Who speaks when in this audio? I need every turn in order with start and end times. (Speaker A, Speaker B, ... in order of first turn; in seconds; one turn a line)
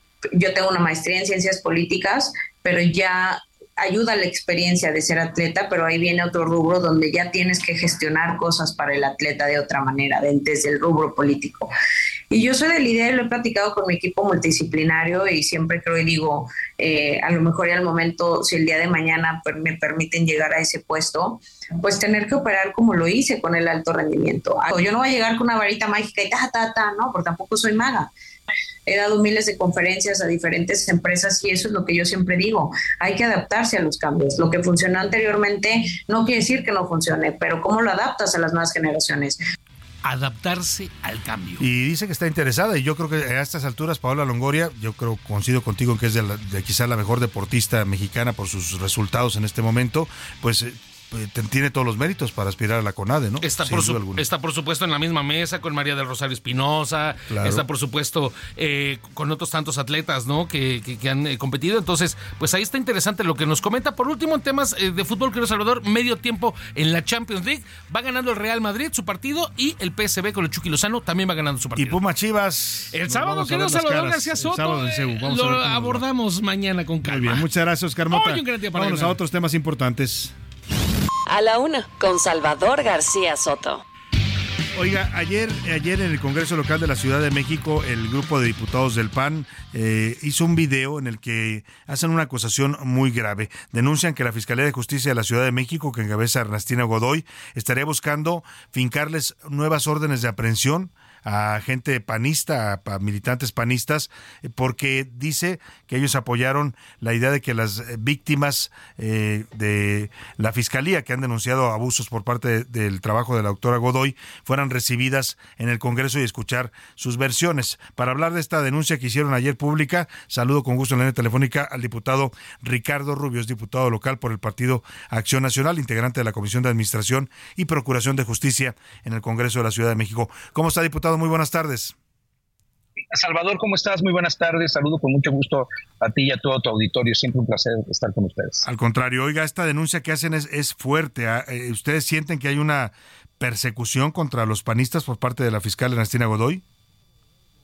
Speaker A: 0.3-11.7
Speaker A: 12.3-28.1
Speaker A: 28.9-39.4
Speaker B: 40.0-41.6
Speaker C: 41.6-54.2
Speaker B: 53.4-72.0
Speaker C: 57.3-57.6
Speaker C: 71.7-76.0
Speaker B: 72.9-77.4
Speaker C: 77.1-80.3
Speaker B: 78.1-79.2
Speaker D: 81.3-83.8
Speaker C: 84.7-131.9
Speaker E: 133.1-138.6
Speaker C: 138.6-146.6